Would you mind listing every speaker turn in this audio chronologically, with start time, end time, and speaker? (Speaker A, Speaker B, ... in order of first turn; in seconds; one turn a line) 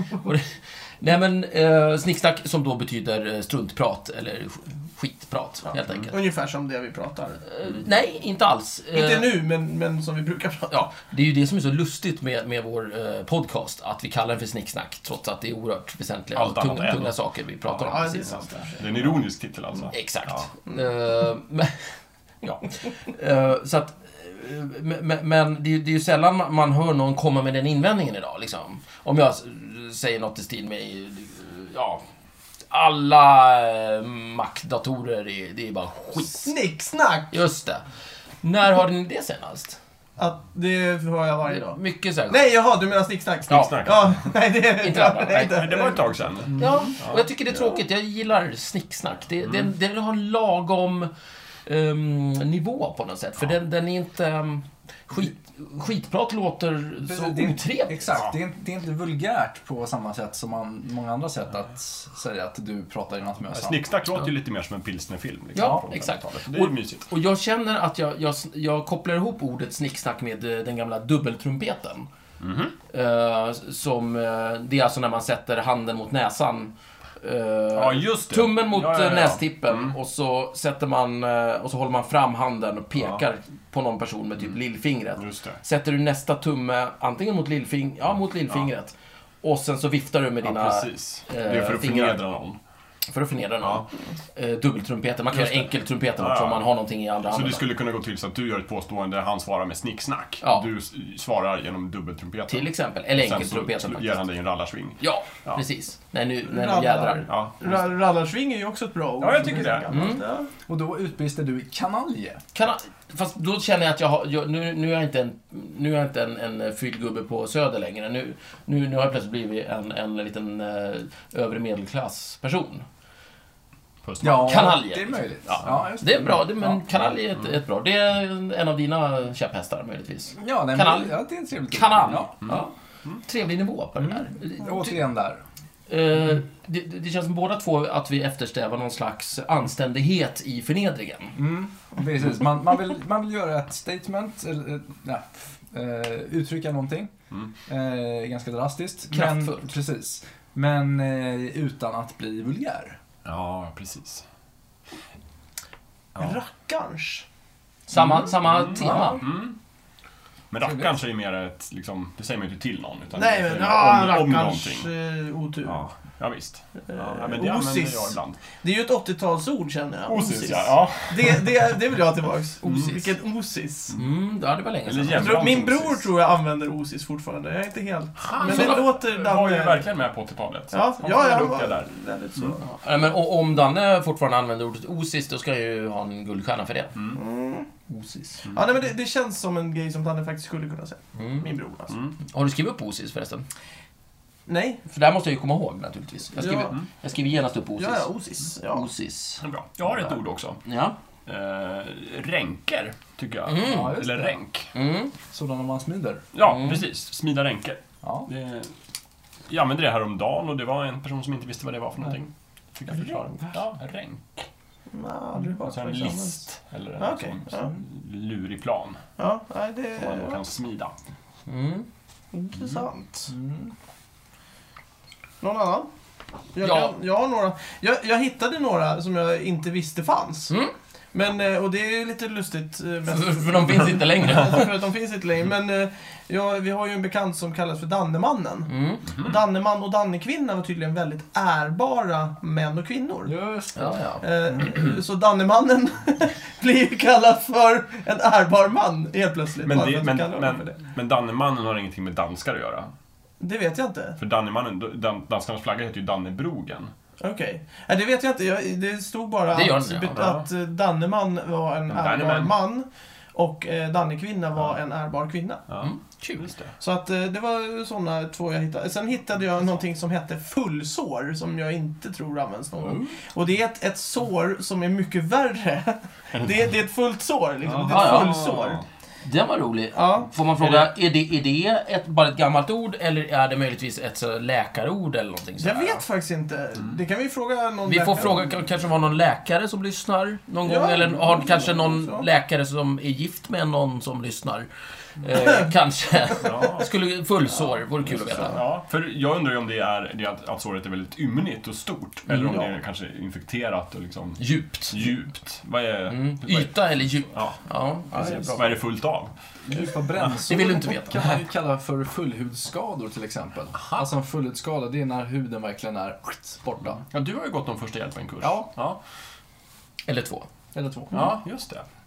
Speaker A: 0.2-6.1
Speaker B: 6.1-7.4
Speaker A: 7.5-9.3
Speaker B: 8.9-10.8
Speaker A: 10.7-18.4
Speaker C: 16.3-17.1
Speaker B: 17.8-19.1
Speaker C: 18.2-20.5
Speaker A: 19.9-21.7
Speaker A: 23.1-32.0
Speaker A: 32.7-36.5
Speaker B: 36.3-37.4
Speaker A: 37.3-37.8
Speaker A: 38.4-39.8
Speaker B: 40.2-46.7
Speaker A: 41.5-42.4
Speaker C: 43.5-44.3
Speaker A: 43.5-43.8
Speaker A: 44.8-45.6
Speaker C: 45.3-47.2
Speaker A: 46.6-51.1
Speaker B: 47.5-47.8
Speaker A: 51.6-58.2
Speaker D: 57.0-63.8
Speaker C: 63.5-67.1
Speaker A: 65.5-72.1
Speaker C: 72.4-72.7
Speaker A: 72.9-92.2
Speaker C: 77.7-79.9
Speaker C: 83.0-83.2
Speaker C: 85.2-85.6
Speaker C: 90.4-92.6
Speaker A: 93.1-97.7
Speaker C: 95.3-96.7
Speaker C: 97.2-105.6
Speaker A: 100.4-100.7
Speaker A: 102.5-104.2
Speaker A: 105.0-107.3
Speaker B: 106.5-110.5
Speaker C: 107.3-107.8
Speaker D: 109.2-109.9
Speaker C: 109.2-110.1
Speaker A: 109.9-110.2
Speaker D: 110.6-112.4
Speaker A: 112.5-122.8
Speaker C: 124.0-124.8
Speaker D: 124.2-126.8
Speaker A: 124.2-132.7
Speaker D: 130.3-132.3
Speaker C: 132.1-133.2
Speaker A: 133.2-135.0
Speaker D: 134.0-135.4
Speaker A: 135.9-141.4
Speaker D: 141.3-147.1
Speaker D: 147.7-153.0
Speaker A: 149.1-149.7
Speaker C: 153.2-154.2
Speaker B: 156.2-157.2
Speaker A: 157.9-159.2
Speaker C: 158.0-159.6
Speaker D: 158.8-159.2
Speaker C: 160.5-164.9
Speaker D: 160.6-160.9
Speaker B: 163.1-165.8
Speaker C: 165.6-168.4
Speaker B: 166.9-173.9
Speaker C: 170.1-171.7
Speaker C: 172.6-173.1
Speaker A: 173.9-175.4
Speaker C: 174.8-176.1
Speaker B: 175.1-179.8
Speaker A: 178.3-178.8
Speaker C: 178.3-182.6
Speaker B: 180.7-182.7
Speaker A: 182.6-187.0
Speaker B: 187.1-187.7
Speaker A: 187.9-188.4
Speaker B: 188.5-192.0
Speaker A: 191.2-191.5
Speaker C: 191.9-192.1
Speaker A: 192.3-193.4
Speaker B: 194.5-194.8
Speaker A: 194.9-198.1
Speaker B: 196.4-196.8
Speaker B: 197.8-198.9
Speaker A: 198.7-199.4
Speaker C: 199.4-200.6
Speaker A: 200.6-200.9
Speaker C: 201.2-204.7
Speaker A: 203.4-204.0
Speaker D: 203.6-204.3
Speaker A: 204.7-205.1
Speaker D: 205.3-206.2
Speaker C: 206.3-208.7
Speaker A: 206.4-206.8
Speaker D: 208.0-208.3
Speaker C: 209.5-214.4
Speaker B: 212.9-213.5
Speaker B: 214.9-216.4
Speaker C: 215.6-219.0
Speaker B: 217.0-217.7
Speaker B: 219.2-220.4
Speaker C: 219.9-220.9
Speaker A: 221.5-221.9
Speaker B: 222.3-223.3
Speaker C: 222.6-222.8
Speaker D: 223.3-223.7
Speaker B: 225.4-225.9
Speaker B: 226.5-230.5
Speaker A: 226.6-226.9
Speaker B: 231.1-243.3
Speaker A: 233.1-234.7
Speaker A: 238.7-239.1
Speaker C: 239.1-239.4
Speaker D: 243.2-244.0
Speaker A: 243.7-244.2
Speaker B: 244.2-250.7
Speaker C: 249.6-252.9
Speaker B: 253.4-254.2
Speaker C: 254.2-256.9
Speaker B: 257.2-265.6
Speaker A: 259.5-260.2
Speaker C: 260.1-260.4
Speaker C: 261.9-262.5
Speaker C: 265.7-266.7
Speaker A: 265.8-266.5
Speaker B: 266.8-278.8
Speaker D: 272.8-273.1
Speaker C: 277.6-278.8
Speaker A: 277.9-278.4
Speaker A: 279.2-286.0
Speaker B: 279.9-280.8
Speaker B: 285.6-288.4
Speaker A: 287.9-294.7
Speaker B: 290.6-292.3
Speaker A: 295.2-298.6
Speaker C: 296.4-296.9
Speaker B: 298.1-298.6
Speaker C: 298.3-307.6
Speaker A: 302.3-302.7
Speaker A: 304.4-305.0
Speaker A: 306.1-308.8
Speaker C: 308.1-309.3
Speaker D: 309.6-317.0
Speaker A: 310.5-311.1
Speaker C: 313.8-314.0
Speaker C: 317.0-319.0
Speaker D: 318.4-318.7
Speaker A: 320.1-320.5
Speaker D: 320.7-321.3
Speaker C: 321.1-321.9